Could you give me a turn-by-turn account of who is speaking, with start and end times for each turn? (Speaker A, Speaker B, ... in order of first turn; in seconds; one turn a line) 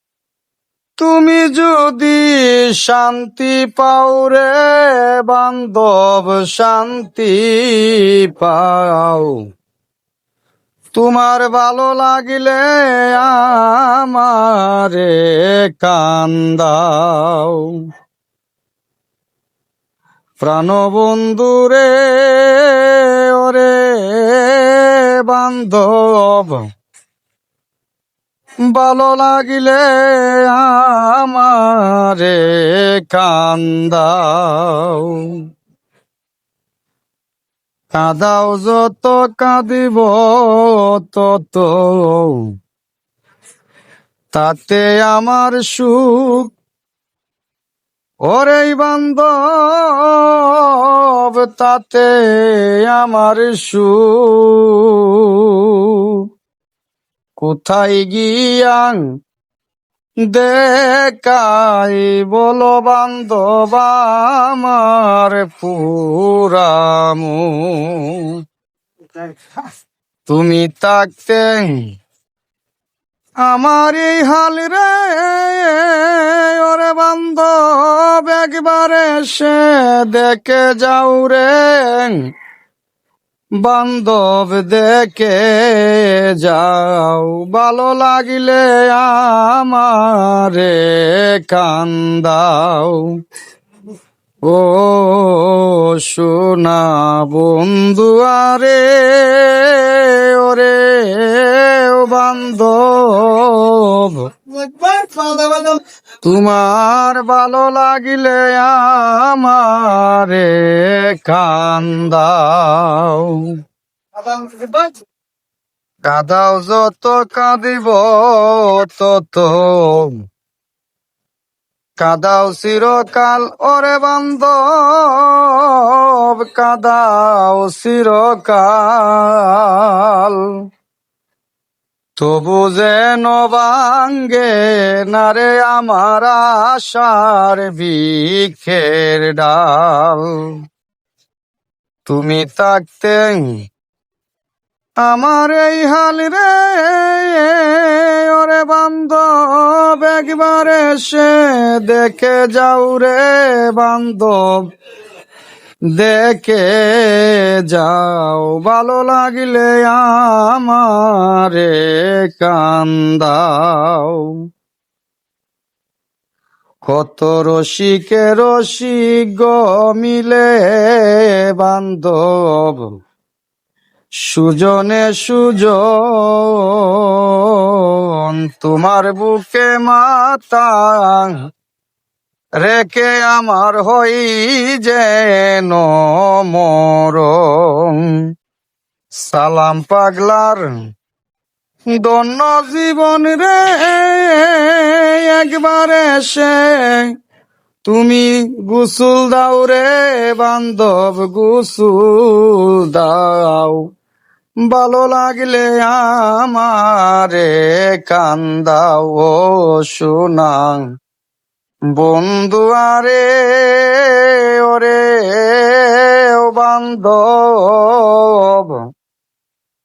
Speaker A: 1.0-9.4
Speaker A: 10.9-17.8
Speaker A: 20.4-26.6
Speaker A: 28.7-35.4
Speaker A: 37.9-42.5
Speaker A: 44.3-46.5
Speaker A: 48.3-56.2
Speaker A: 57.4-59.0
Speaker A: 60.3-68.4
Speaker A: 70.3-71.7
Speaker A: 73.5-82.2
Speaker A: 83.6-93.1
Speaker A: 94.5-113.5
Speaker A: 114.2-114.9
Speaker A: 116.1-120.2
Speaker A: 122.0-130.5
Speaker A: 132.2-140.5
Speaker A: 142.1-143.6
Speaker A: 145.1-154.7
Speaker A: 156.0-164.4
Speaker A: 166.9-172.9
Speaker A: 174.3-181.4
Speaker A: 182.6-188.2
Speaker A: 189.3-190.7
Speaker A: 191.9-197.1
Speaker A: 197.9-203.8
Speaker A: 204.7-210.8
Speaker A: 211.9-218.8